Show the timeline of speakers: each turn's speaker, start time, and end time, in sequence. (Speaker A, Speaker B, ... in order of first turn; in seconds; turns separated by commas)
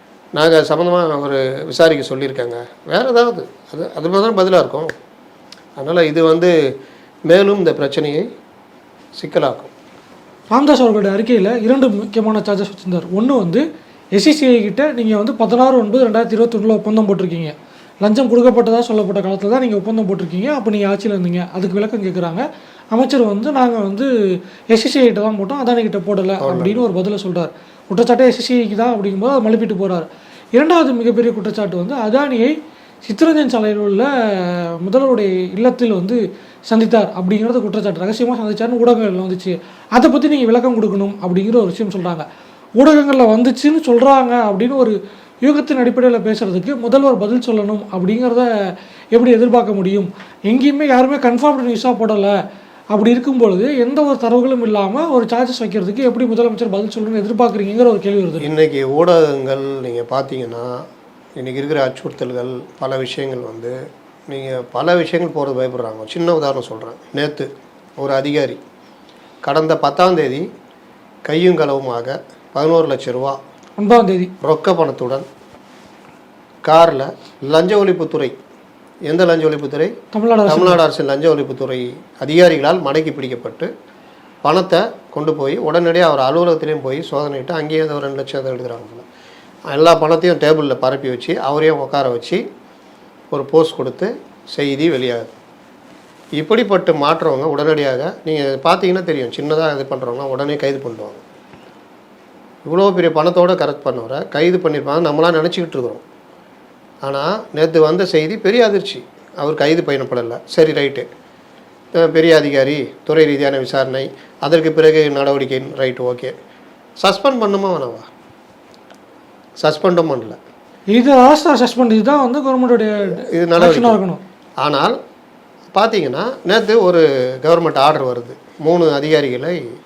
Speaker A: 0.3-4.9, Speaker A: 5.8-6.5, Speaker A: 7.3-8.2, Speaker A: 9.2-9.7, Speaker B: 10.5-13.6, Speaker B: 14.1-24.1, Speaker B: 24.7-42.2, Speaker A: 26.4-26.9, Speaker B: 42.8-52.4, Speaker B: 52.9-58.5, Speaker A: 58.4-60.8, Speaker A: 61.4-63.7, Speaker A: 64.3-68.6, Speaker A: 69.4-70.4, Speaker A: 71.3-73.4, Speaker B: 73.8-74.3, Speaker A: 74.4-75.2, Speaker A: 76.6-78.3, Speaker A: 79.1-79.9, Speaker B: 80.1-80.8, Speaker A: 80.5-83.7, Speaker A: 84.4-89.0, Speaker A: 89.7-92.4, Speaker A: 93.3-95.3, Speaker A: 96.4-101.2, Speaker A: 102.7-106.0, Speaker A: 107.0-111.1, Speaker A: 111.9-116.3, Speaker A: 117.0-118.0, Speaker A: 119.6-120.4, Speaker B: 120.9-124.2, Speaker A: 123.1-124.0, Speaker A: 124.6-125.0, Speaker A: 125.7-129.6